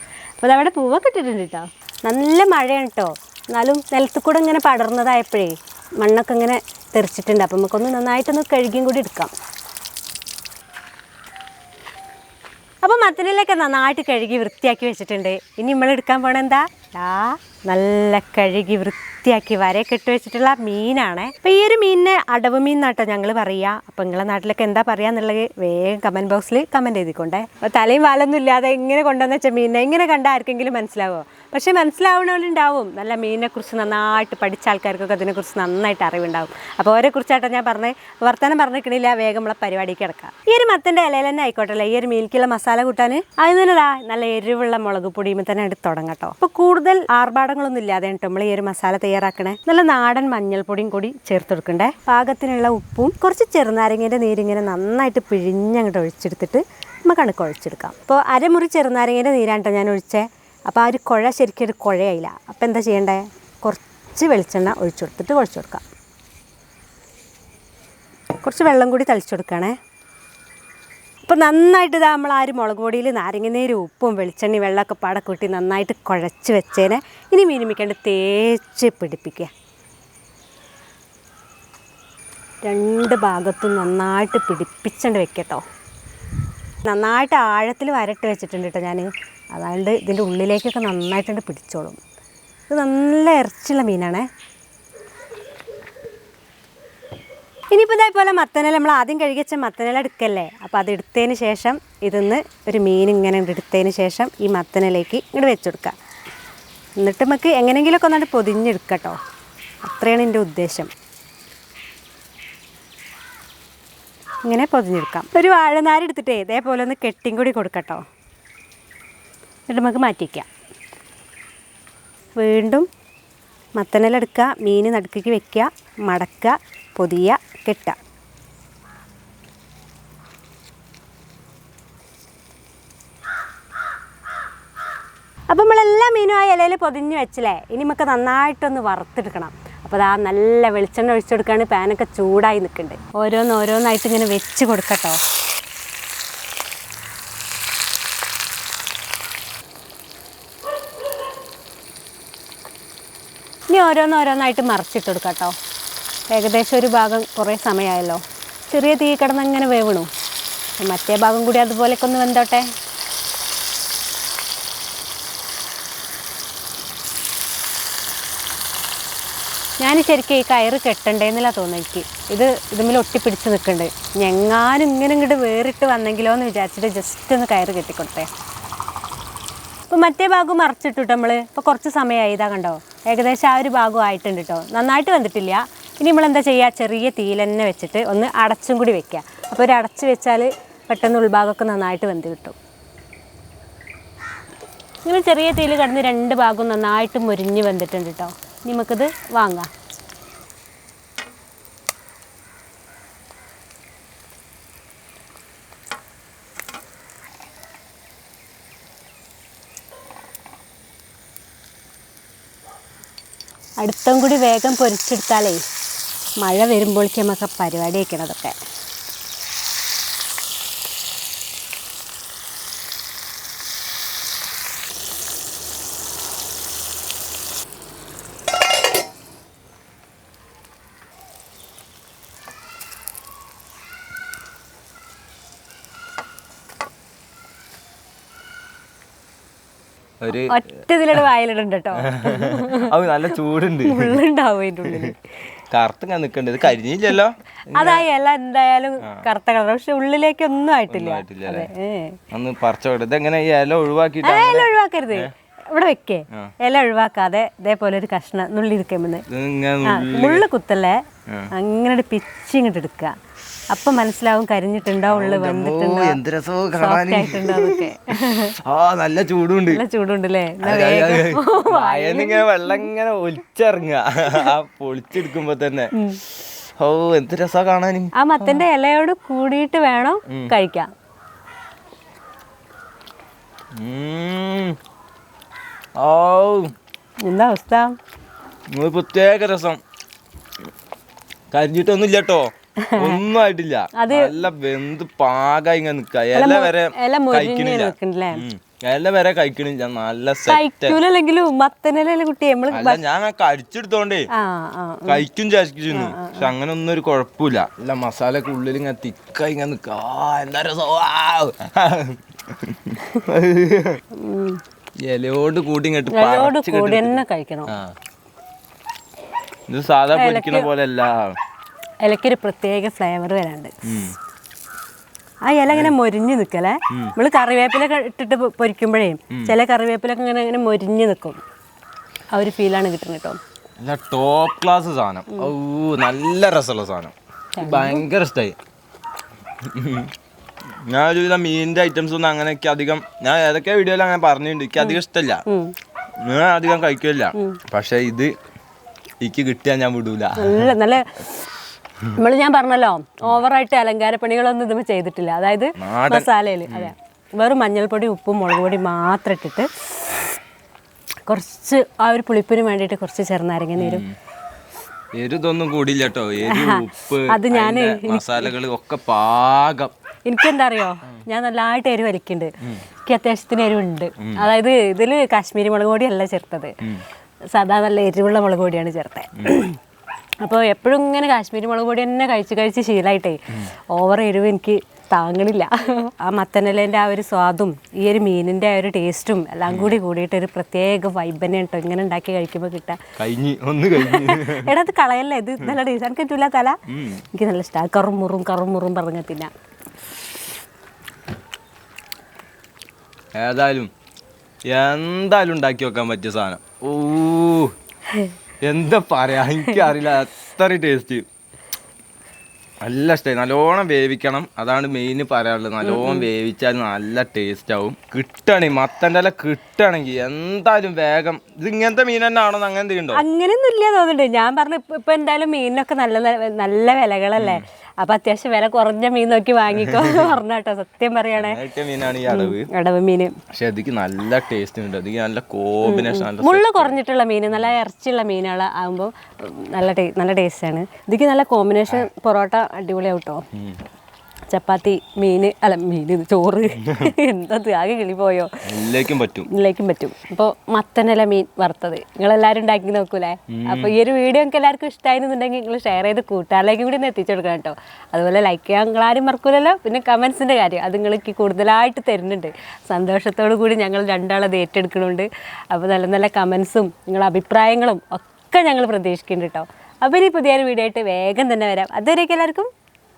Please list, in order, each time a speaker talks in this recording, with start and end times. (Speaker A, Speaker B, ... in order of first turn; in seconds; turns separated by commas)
Speaker A: 0.4-9.3, Speaker A: 12.8-65.8, Speaker A: 68.4-69.7, Speaker A: 71.3-79.5, Speaker A: 82.7-85.6, Speaker A: 86.8-92.0, Speaker A: 92.7-94.3, Speaker A: 97.7-106.0, Speaker A: 107.0-109.2, Speaker A: 109.8-110.9, Speaker A: 114.5-118.0, Speaker A: 119.7-120.5, Speaker A: 122.4-122.9, Speaker A: 123.8-128.0, Speaker A: 135.5-145.2, Speaker A: 153.7-155.6, Speaker A: 156.3-160.1, Speaker A: 160.8-162.7, Speaker A: 169.8-178.3, Speaker A: 179.9-192.6, Speaker A: 195.1-199.7, Speaker A: 213.8-215.6, Speaker A: 216.4-218.6, Speaker B: 240.2-240.6, Speaker A: 240.5-242.9, Speaker B: 242.0-244.2, Speaker A: 243.8-245.3, Speaker B: 245.7-248.1, Speaker A: 247.8-252.2, Speaker B: 250.9-251.7, Speaker B: 252.3-255.3, Speaker A: 254.2-259.2, Speaker B: 259.3-260.4, Speaker A: 259.9-261.0, Speaker A: 261.5-263.1, Speaker A: 263.7-266.2, Speaker B: 265.1-269.8, Speaker A: 266.8-268.6, Speaker A: 269.7-272.9, Speaker B: 270.6-275.9, Speaker B: 276.8-278.6, Speaker A: 278.2-280.9, Speaker B: 280.3-280.5, Speaker B: 283.8-284.8, Speaker B: 286.0-286.7, Speaker A: 287.2-287.9, Speaker B: 288.7-289.8, Speaker B: 291.5-301.0, Speaker A: 292.8-293.2, Speaker A: 293.9-294.4, Speaker A: 296.4-298.4, Speaker A: 300.5-303.0, Speaker B: 302.7-304.3, Speaker A: 304.3-305.2, Speaker B: 305.1-314.0, Speaker A: 305.9-306.5, Speaker A: 314.2-314.6, Speaker B: 315.1-317.9, Speaker A: 316.1-317.7, Speaker B: 319.7-321.4, Speaker A: 320.1-320.7, Speaker A: 322.0-323.7, Speaker B: 323.9-324.1, Speaker A: 325.5-331.4, Speaker B: 325.7-325.9, Speaker B: 326.9-327.1, Speaker A: 332.3-333.4, Speaker B: 333.8-338.6, Speaker A: 337.6-338.0, Speaker B: 339.6-340.1, Speaker B: 340.9-345.4, Speaker A: 344.8-345.7, Speaker B: 346.2-348.3, Speaker B: 349.2-350.8, Speaker A: 350.4-351.3, Speaker A: 352.2-360.2, Speaker B: 355.8-356.9, Speaker A: 361.3-364.0, Speaker B: 363.8-364.1, Speaker B: 365.2-369.9, Speaker A: 366.4-368.5, Speaker A: 370.3-372.5, Speaker A: 373.1-376.8, Speaker B: 374.2-374.5, Speaker A: 377.5-379.8, Speaker A: 380.4-383.4, Speaker A: 383.9-393.0, Speaker B: 389.7-390.0, Speaker B: 393.2-394.7, Speaker A: 393.9-396.8, Speaker B: 396.9-397.2, Speaker A: 397.3-399.5, Speaker B: 403.4-403.9, Speaker B: 404.7-407.8, Speaker B: 408.6-411.3, Speaker B: 412.8-423.2, Speaker A: 415.8-416.3, Speaker A: 423.1-431.6, Speaker B: 427.4-427.6, Speaker B: 429.8-430.3, Speaker B: 431.4-432.7, Speaker A: 432.3-433.4, Speaker B: 433.5-437.0, Speaker A: 435.8-443.4, Speaker A: 444.5-448.5, Speaker B: 448.7-449.5, Speaker A: 449.5-472.7, Speaker B: 453.5-453.9